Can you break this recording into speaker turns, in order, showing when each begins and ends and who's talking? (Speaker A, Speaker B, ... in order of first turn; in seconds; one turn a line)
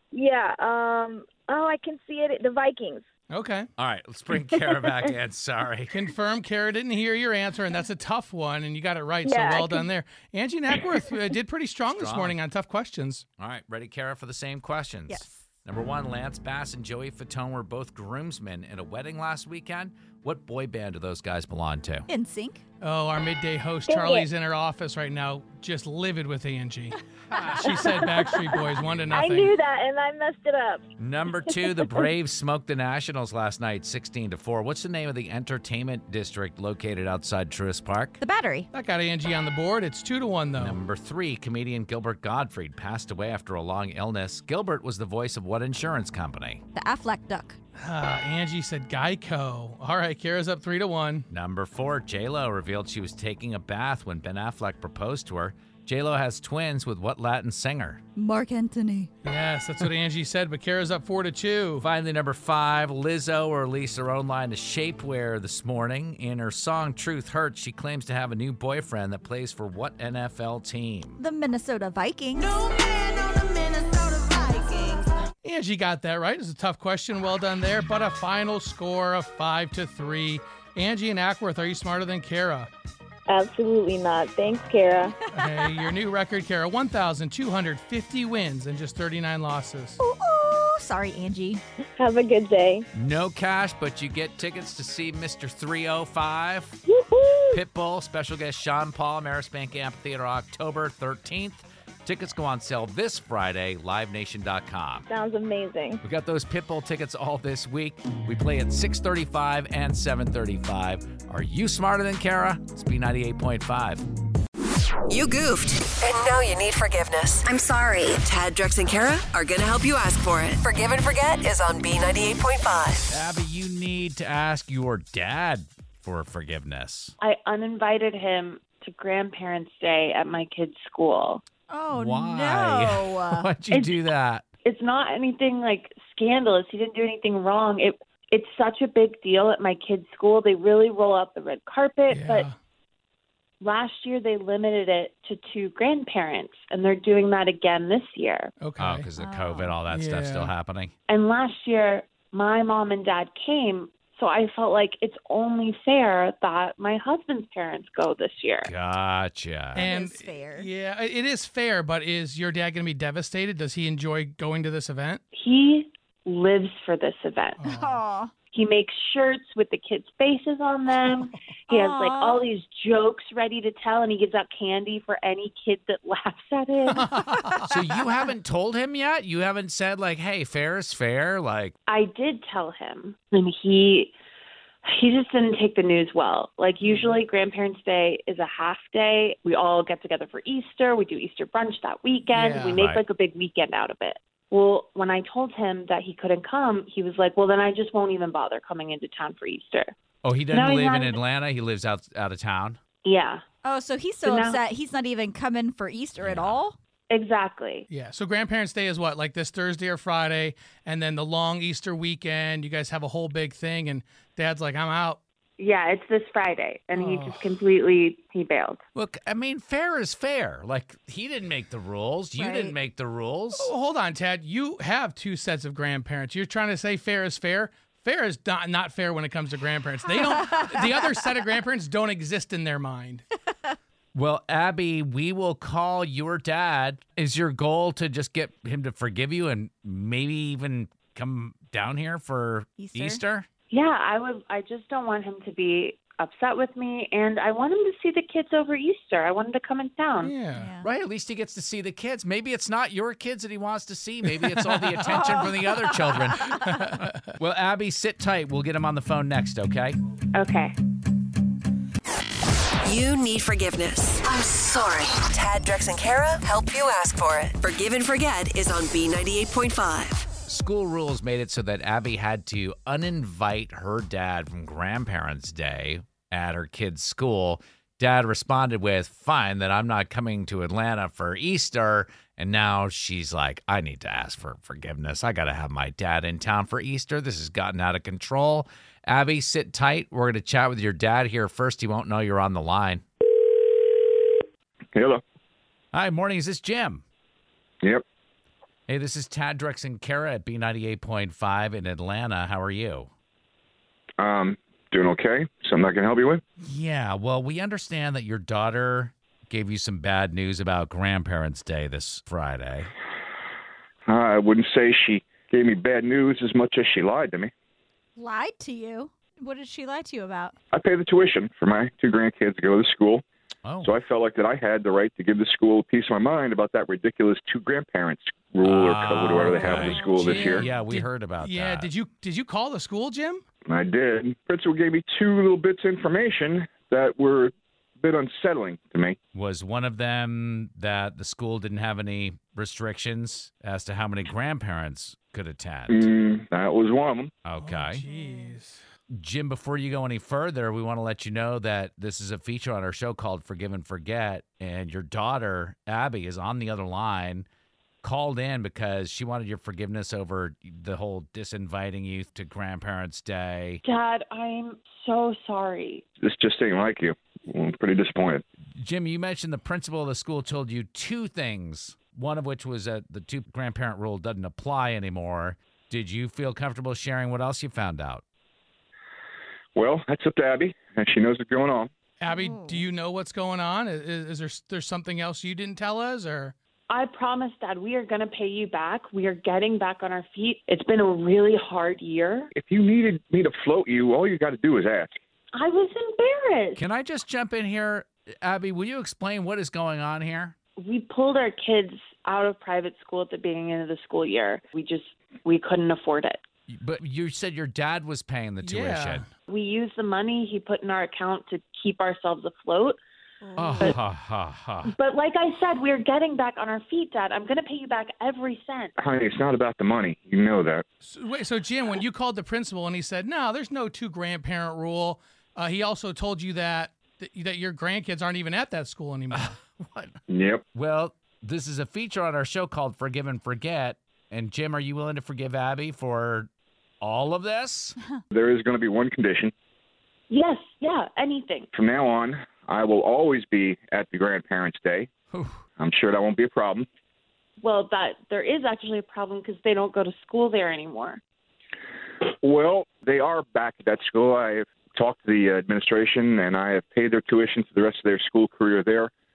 Speaker A: 0.1-3.0
Speaker B: 3.3-3.7
Speaker C: 3.8-6.0
Speaker B: 5.9-13.2
Speaker A: 9.2-9.8
Speaker C: 11.9-12.4
Speaker C: 13.4-22.1
Speaker D: 15.1-15.3
Speaker D: 22.1-22.6
Speaker B: 22.8-27.0
Speaker A: 23.9-24.3
Speaker C: 27.3-28.0
Speaker B: 27.6-29.5
Speaker A: 29.1-30.9
Speaker C: 31.0-38.2
Speaker A: 31.5-32.0
Speaker D: 38.2-38.7
Speaker B: 38.7-40.8
Speaker C: 40.6-46.6
Speaker D: 46.7-47.6
Speaker B: 47.8-51.3
Speaker C: 51.3-58.0
Speaker D: 58.1-59.1
Speaker B: 59.2-61.9
Speaker C: 61.8-71.2
Speaker D: 71.2-72.5
Speaker E: 72.6-73.4
Speaker B: 75.4-82.7
Speaker A: 83.3-85.2
Speaker B: 85.3-90.0
Speaker D: 85.3-85.9
Speaker D: 90.0-91.6
Speaker A: 92.0-92.9
Speaker C: 92.9-96.8
Speaker A: 96.8-97.6
Speaker C: 97.5-105.1
Speaker A: 105.1-106.0
Speaker C: 106.0-114.0
Speaker E: 115.1-123.1
Speaker C: 123.1-127.1
Speaker F: 127.2-131.4
Speaker D: 131.7-133.5
Speaker C: 131.9-134.4
Speaker F: 133.7-134.0
Speaker F: 134.6-142.5
Speaker B: 142.1-142.5
Speaker F: 143.6-148.5
Speaker B: 148.6-149.1
Speaker C: 148.8-150.9
Speaker D: 149.2-149.8
Speaker B: 149.9-150.5
Speaker F: 151.1-158.7
Speaker C: 158.6-159.8
Speaker B: 159.7-165.2
Speaker D: 159.8-160.7
Speaker F: 165.3-167.6
Speaker B: 167.6-168.0
Speaker D: 167.6-168.3
Speaker F: 168.5-177.5
Speaker D: 171.7-172.5
Speaker B: 176.9-177.7
Speaker C: 177.7-181.8
Speaker F: 181.9-184.1
Speaker F: 184.8-199.9
Speaker B: 186.8-187.1
Speaker B: 192.3-192.8
Speaker C: 192.7-193.0
Speaker C: 200.2-202.8
Speaker F: 200.5-201.2
Speaker F: 203.0-203.4
Speaker D: 203.6-206.8
Speaker F: 204.2-204.6
Speaker C: 206.2-206.6
Speaker F: 207.1-207.9
Speaker B: 207.9-215.2
Speaker F: 215.6-218.8
Speaker B: 216.9-217.4
Speaker C: 218.9-223.7
Speaker D: 222.3-222.7
Speaker B: 223.6-233.2
Speaker D: 230.3-230.8
Speaker C: 234.1-243.5
Speaker D: 242.8-243.2
Speaker F: 243.7-250.3
Speaker B: 250.2-250.7
Speaker D: 250.5-250.8
Speaker C: 250.8-260.0
Speaker B: 254.4-255.5
Speaker D: 255.1-256.6
Speaker B: 256.4-257.3
Speaker F: 260.3-260.8
Speaker E: 262.8-270.3
Speaker C: 270.5-293.0
Speaker G: 294.9-295.2
Speaker C: 295.9-297.0
Speaker C: 298.9-303.1
Speaker G: 304.2-306.4
Speaker C: 306.6-312.9
Speaker G: 314.1-317.5
Speaker D: 318.2-320.5
Speaker G: 320.7-323.2
Speaker C: 323.6-324.0
Speaker G: 323.8-330.6
Speaker C: 328.6-331.9
Speaker B: 329.4-333.4
Speaker G: 333.7-339.2
Speaker C: 339.3-346.1
Speaker G: 345.9-347.3
Speaker C: 347.4-348.0
Speaker B: 347.6-348.8
Speaker D: 348.1-348.5
Speaker C: 349.1-357.5
Speaker C: 358.0-363.8
Speaker F: 363.8-366.0
Speaker G: 366.2-368.4
Speaker C: 368.8-378.2
Speaker G: 379.8-381.9
Speaker B: 382.2-386.5
Speaker D: 382.3-382.8
Speaker F: 386.9-392.5
Speaker G: 392.5-395.2
Speaker F: 395.5-396.8
Speaker C: 396.8-400.5
Speaker F: 400.8-406.4
Speaker C: 406.7-409.2
Speaker B: 408.6-409.3
Speaker F: 409.5-413.0
Speaker D: 413.5-413.8
Speaker C: 413.6-414.9
Speaker F: 414.9-418.9
Speaker G: 419.0-420.8
Speaker B: 421.0-429.5
Speaker C: 429.3-430.2
Speaker G: 430.3-430.6
Speaker C: 430.7-436.5
Speaker C: 437.0-438.0
Speaker G: 438.3-439.5
Speaker F: 440.3-441.7
Speaker G: 441.7-445.1
Speaker C: 445.3-445.6
Speaker G: 445.8-446.9
Speaker F: 447.6-451.2
Speaker G: 452.4-459.1